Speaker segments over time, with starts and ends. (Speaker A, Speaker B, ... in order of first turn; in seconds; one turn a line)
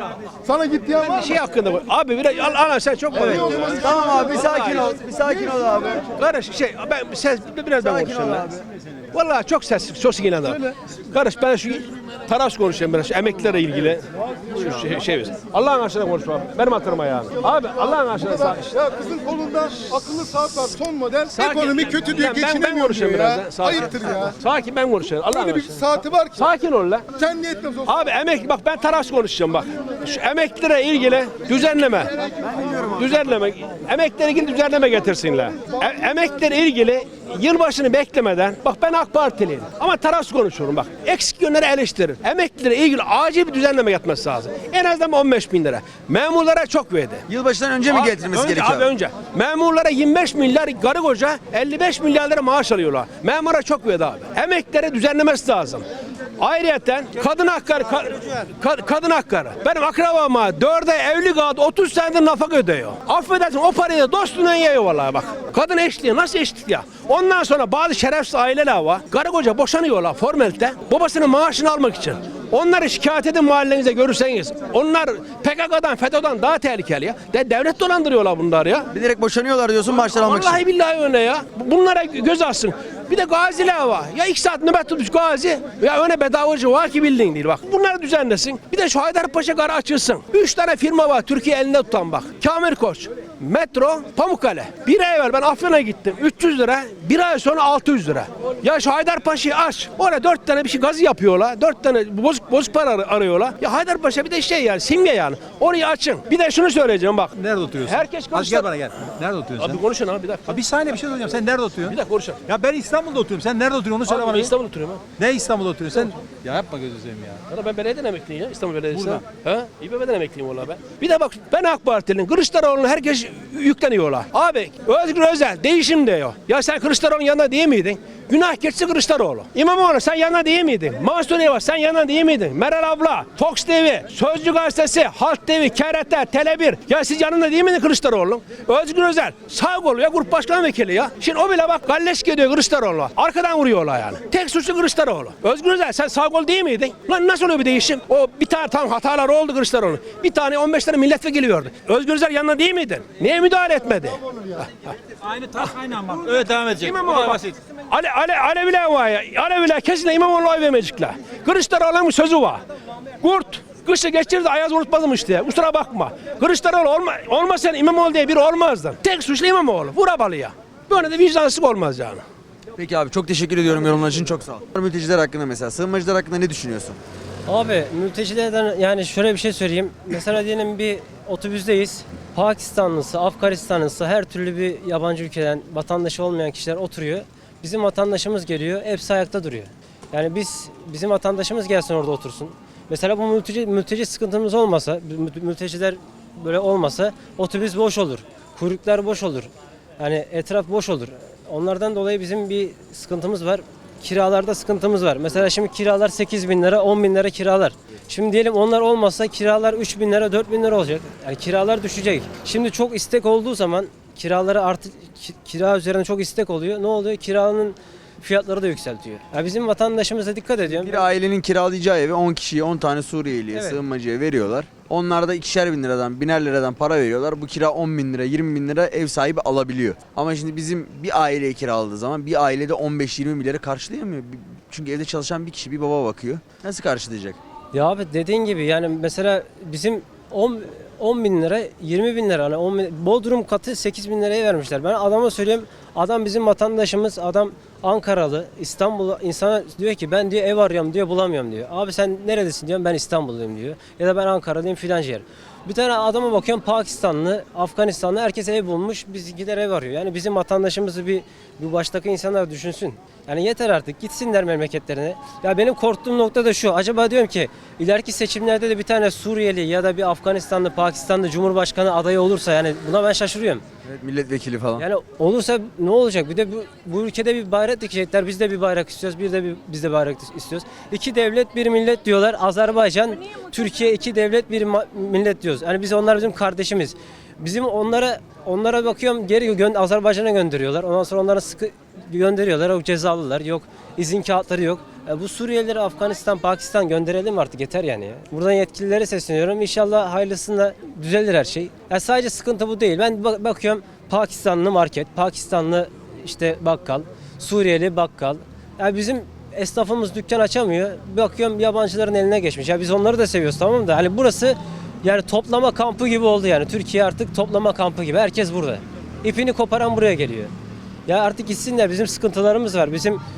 Speaker A: 0.4-1.4
Speaker B: 1.0-4.8
Speaker A: 3.1-4.4
Speaker C: 3.1-6.1
Speaker B: 6.2-18.7
Speaker C: 7.9-8.5
Speaker A: 10.4-10.7
Speaker A: 17.4-24.3
Speaker B: 21.3-27.0
Speaker A: 25.1-26.5
Speaker A: 27.1-28.1
Speaker B: 27.9-32.1
Speaker C: 32.6-32.9
Speaker B: 32.8-47.2
Speaker C: 47.3-48.9
Speaker B: 47.9-55.8
Speaker B: 56.4-78.9
Speaker C: 78.9-80.6
Speaker B: 80.1-108.9
Speaker D: 107.3-109.8
Speaker B: 109.5-110.6
Speaker D: 110.5-114.5
Speaker B: 111.9-112.4
Speaker B: 114.0-115.0
Speaker D: 115.2-117.4
Speaker B: 117.5-154.9
Speaker D: 118.9-119.2
Speaker D: 155.3-157.5
Speaker B: 156.3-162.6
Speaker B: 163.2-172.2
Speaker C: 172.8-177.0
Speaker E: 177.4-221.0
Speaker C: 220.8-237.4
Speaker E: 223.5-223.8
Speaker E: 237.7-273.6
Speaker C: 273.8-274.8
Speaker E: 274.8-320.5
Speaker E: 321.1-323.2